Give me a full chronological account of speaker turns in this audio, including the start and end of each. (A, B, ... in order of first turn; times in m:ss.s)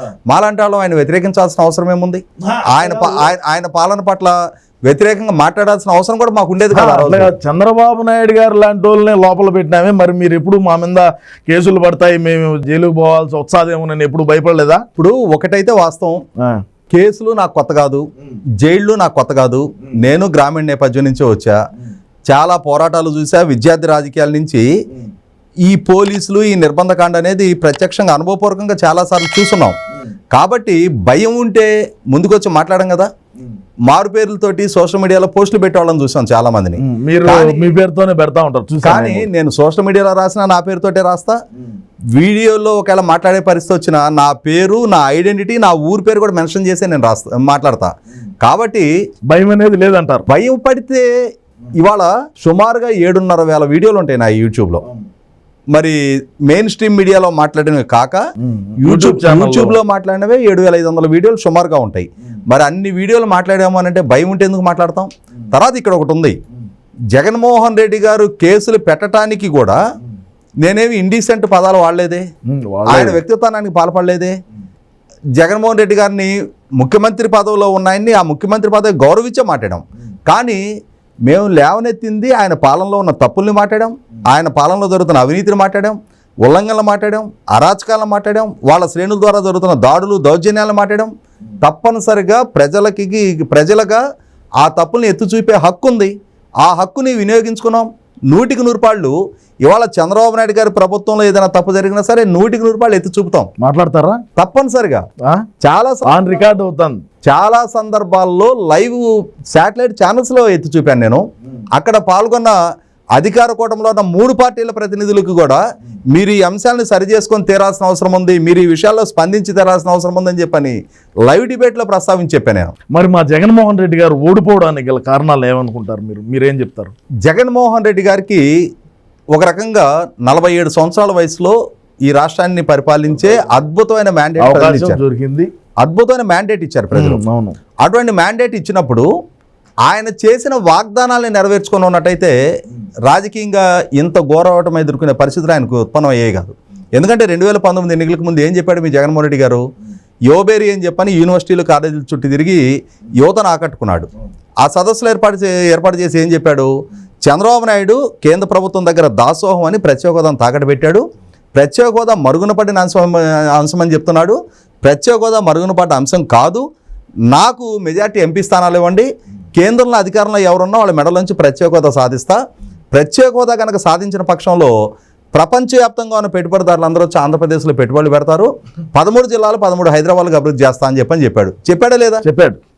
0:00.3-0:04.4 A
0:02.4-0:03.2 B
0:04.9-0:07.3 A
0:06.7-0:14.8 B
0:15.0-0:16.2 A
0:16.9-0:18.0 A
0:18.6-0:21.6 A
0:22.3-0:24.7 A
0:25.6-0:29.8 A
0:30.3-0:33.1 A
0:33.9-0:37.7 A
0:36.8-0:39.3 B
0:38.8-0:41.4 A
0:42.1-0:47.9 A
0:48.4-0:48.9 A
0:49.3-0:50.3 B
0:50.3-0:51.1 A
0:51.8-0:54.8 A
0:55.7-0:58.2 A
0:58.4-0:59.8 B
0:58.8-1:06.4 A
1:07.1-1:09.8 A
1:10.6-1:12.2 A
1:12.5-1:13.2 B
1:12.9-1:14.3 A
1:15.4-1:20.6 A
1:21.3-1:31.1 A
1:31.6-1:34.0 A
1:34.6-1:43.5 A
1:43.6-1:44.2 B
1:44.4-1:45.0 A
1:45.6-1:46.1 A
1:46.1-1:47.0 B
1:47.2-1:51.2 A
1:51.7-1:52.6 A
1:53.2-1:55.6 A
1:56.1-2:02.7 A
2:02.9-2:06.9 B
2:07.2-2:08.4 A
2:09.3-2:15.0 A
2:14.4-2:15.5 B
2:15.8-2:17.2 A
2:16.9-2:17.6 B
2:17.8-2:19.1 A
2:19.9-2:22.4 A
2:23.1-2:29.6 A
2:30.3-2:32.6 A
2:33.2-2:34.1 A
2:34.6-2:36.7 A
2:37.2-2:41.0 A
2:41.6-2:46.6 A
2:47.3-2:52.4 A
2:52.9-2:54.7 A
2:55.3-3:02.2 A
3:02.2-3:02.6 B